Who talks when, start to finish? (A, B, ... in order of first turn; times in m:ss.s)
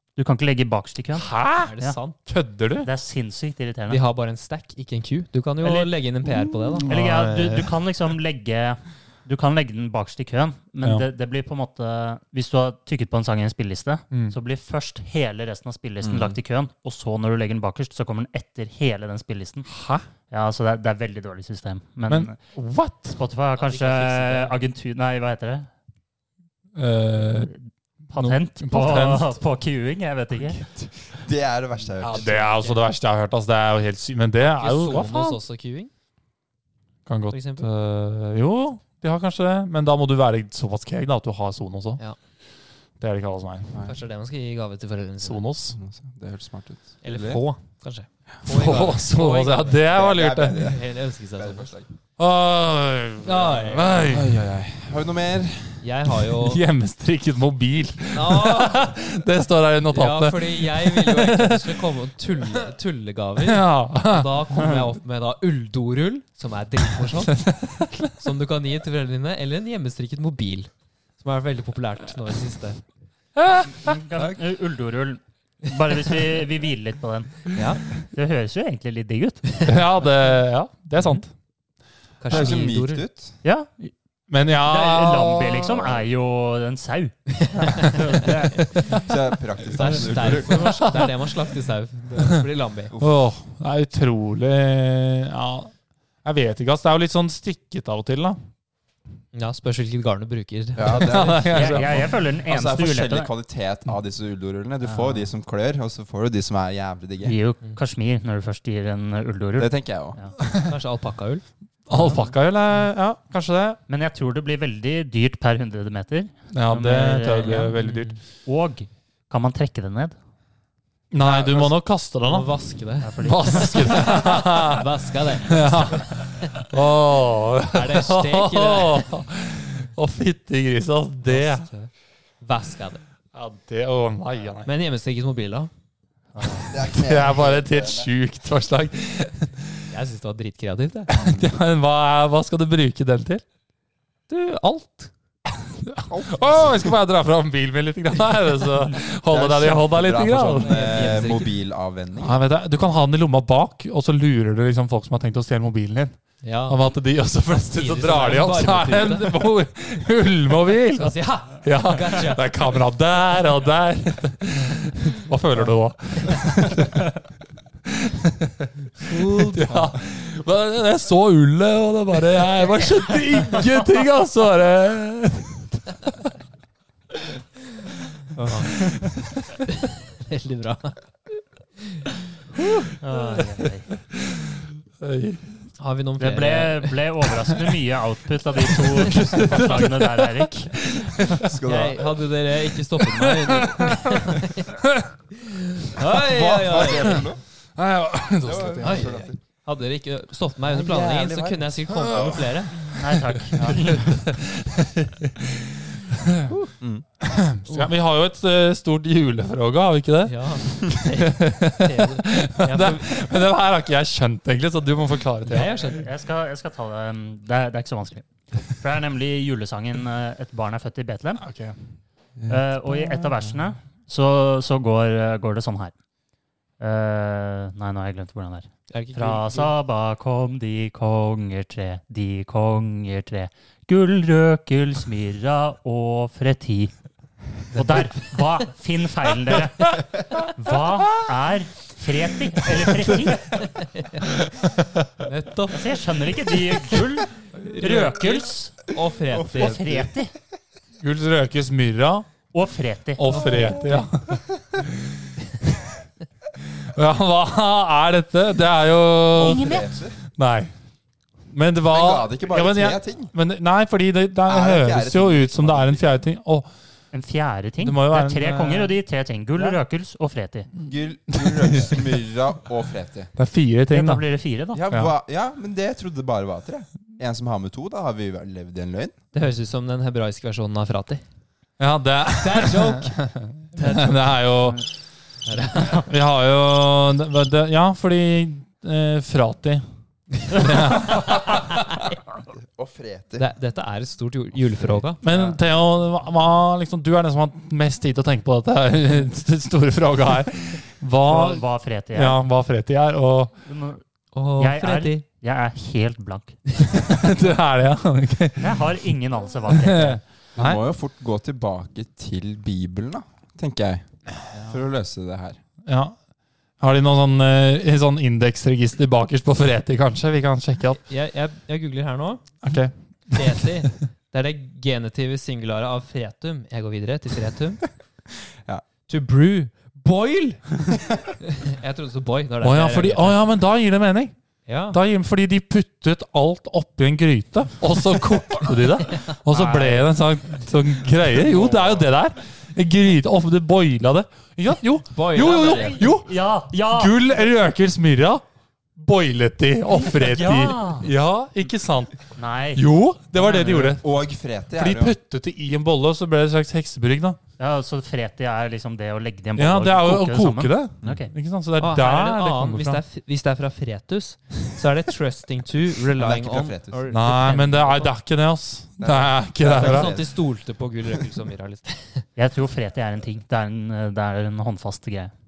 0:00.2-0:02.0 A
0:01.1-0:02.9 B
0:01.6-0:02.2 C
0:02.8-0:04.0 A
0:03.9-0:06.9 C
0:05.6-0:05.9 A
0:06.8-0:07.7 B
0:06.8-0:19.7 A
0:16.0-0:16.4 D
0:19.7-0:20.0 B
0:20.3-0:22.4 A
0:22.1-0:23.2 B
0:23.2-0:25.7 A
0:23.6-0:24.6 C
0:26.8-0:27.5 B
0:28.1-0:30.6 A
0:28.1-0:29.3 B
0:30.7-0:32.3 D
0:32.0-0:35.4 B
0:32.1-0:32.9 C
0:34.4-0:35.9 C
0:37.0-0:42.0 B
0:37.3-0:37.7 C
0:43.0-0:43.7 B
0:43.8-0:45.4 C
0:45.2-0:45.8 B
0:45.7-0:47.4 D
0:47.0-0:50.0 C
0:48.4-0:50.7 B
0:49.9-0:51.9 D
0:50.5-0:51.7 C
0:52.2-0:54.3 B
0:53.2-0:54.1 C
0:54.0-0:55.8 D
0:55.8-0:56.6 C
0:56.4-1:01.8 B
0:58.1-0:58.9 C
0:59.9-1:07.5 C
1:03.4-1:04.3 B
1:07.4-1:08.0 B
1:08.2-1:12.8 C
1:13.4-1:13.9 B
1:13.8-1:19.6 A
1:17.5-1:17.8 C
1:19.6-1:21.3 B
1:22.2-1:23.0 C
1:22.3-1:23.4 D
1:23.4-1:23.9 A
1:24.3-1:25.9 B
1:24.6-1:28.8 A
1:27.4-1:29.1 C
1:29.0-1:30.8 D
1:29.7-1:32.9 C
1:30.6-1:31.0 B
1:32.9-1:33.2 D
1:33.0-1:38.4 B
1:39.3-1:41.7 C
1:40.8-1:47.4 D
1:40.9-1:42.1 B
1:41.5-1:43.3 A
1:44.8-1:45.2 A
1:47.2-1:50.3 A
1:49.6-1:50.2 D
1:50.6-1:51.4 C
1:51.9-1:53.8 B
1:52.0-1:52.2 C
1:53.9-1:57.7 A
1:56.5-1:58.1 B
1:57.4-1:58.2 C
1:58.4-2:00.1 A
2:01.1-2:02.5 B
2:01.2-2:06.6 C
2:03.0-2:04.2 A
2:03.2-2:04.9 B
2:05.4-2:11.7 B
2:07.7-2:09.1 C
2:11.3-2:11.9 C
2:12.4-2:13.0 C
2:13.3-2:14.7 B
2:14.6-2:15.7 C
2:16.3-2:16.7 A
2:16.7-2:18.1 D
2:16.8-2:19.7 B
2:19.9-2:21.1 C
2:21.1-2:23.4 B
2:21.2-2:21.5 D
2:24.3-2:25.1 C
2:25.8-2:31.0 B
2:26.1-2:26.9 D
2:29.3-2:32.4 D
2:30.6-2:31.5 C
2:32.2-2:47.1 B
2:36.4-2:36.8 C
2:37.5-2:39.3 C
2:40.9-2:42.4 C
2:47.9-2:56.1 B
2:49.0-2:49.9 C
2:58.4-2:58.8 C
2:59.7-3:01.0 C
3:01.8-3:02.9 C
3:03.0-3:03.9 A
3:05.0-3:05.7 B
3:05.8-3:07.0 C
3:06.2-3:10.9 A
3:09.1-3:11.5 B
3:09.1-3:09.8 C
3:11.4-3:12.2 D
3:11.6-3:14.8 C
3:13.3-3:14.2 B
3:15.4-3:17.2 C
3:16.1-3:17.4 D
3:17.8-3:19.2 B
3:18.4-3:19.4 D
3:18.8-3:22.8 C
3:20.7-3:22.4 D
3:22.1-3:26.5 B
3:22.9-3:24.2 A
3:26.8-3:27.0 D
3:27.2-3:35.8 B
3:30.2-3:33.1 C
3:35.5-3:36.1 C
3:35.5-3:41.4 A
3:41.4-3:41.8 B
3:42.4-3:43.6 D
3:42.5-3:45.9 A
3:46.8-3:56.9 A
3:48.9-3:49.7 C
3:57.7-3:58.1 C
3:57.7-4:03.7 A
4:03.6-4:04.3 C
4:05.2-4:05.9 C
4:05.7-4:08.8 A
4:07.5-4:09.8 C
4:09.3-4:10.1 D
4:09.5-4:10.3 A
4:11.0-4:12.3 B
4:12.5-4:13.7 A
4:13.2-4:14.9 B
4:13.6-4:14.0 C
4:16.6-4:19.8 B
4:19.3-4:20.2 D
4:19.4-4:19.9 A
4:20.4-4:20.7 B
4:21.5-4:26.7 B
4:21.9-4:23.3 D
4:24.4-4:26.1 D
4:27.1-4:30.7 A
4:27.8-4:28.9 B
4:30.8-4:33.3 D
4:31.3-4:32.0 B
4:33.3-4:34.2 B
4:33.9-4:34.8 A
4:34.7-4:39.2 D
4:39.3-4:41.2 C
4:41.8-4:44.8 B
4:42.4-4:43.2 C
4:43.7-4:44.4 C
4:45.4-4:46.0 C
4:45.9-4:49.8 B
4:50.4-4:51.6 B
4:51.0-4:51.4 A
4:52.6-4:53.5 D
4:53.4-4:55.2 C
4:55.2-5:01.6 B
5:01.2-5:02.4 A
5:02.1-5:03.5 B
5:03.6-5:04.0 A
5:04.3-5:05.2 C
5:04.6-5:06.6 A
5:06.9-5:08.8 B
5:08.6-5:10.2 A
5:09.7-5:10.8 B
5:10.5-5:15.6 D
5:15.8-5:16.2 B
5:16.8-5:21.0 B
5:21.0-5:22.5 C
5:22.6-5:23.7 B
5:23.3-5:27.8 C
5:29.1-5:30.7 C
5:31.4-5:33.4 C
5:32.6-5:34.3 B
5:34.6-5:35.0 C
5:34.9-5:46.3 B
5:39.5-5:40.1 A
5:45.1-5:46.0 C
5:45.4-5:47.1 A
5:46.9-5:48.4 B
5:49.0-5:52.2 B
5:49.9-5:51.1 A
5:52.4-5:52.8 A
5:52.8-5:54.1 B
5:53.4-5:53.9 A
5:54.0-5:55.2 D
5:54.8-5:57.4 B
5:57.6-6:01.3 A
5:59.6-6:03.0 B
6:01.8-6:08.1 C
6:06.1-6:07.0 D
6:07.1-6:10.1 B
6:09.0-6:10.3 D
6:09.6-6:12.2 C
6:12.4-6:15.3 A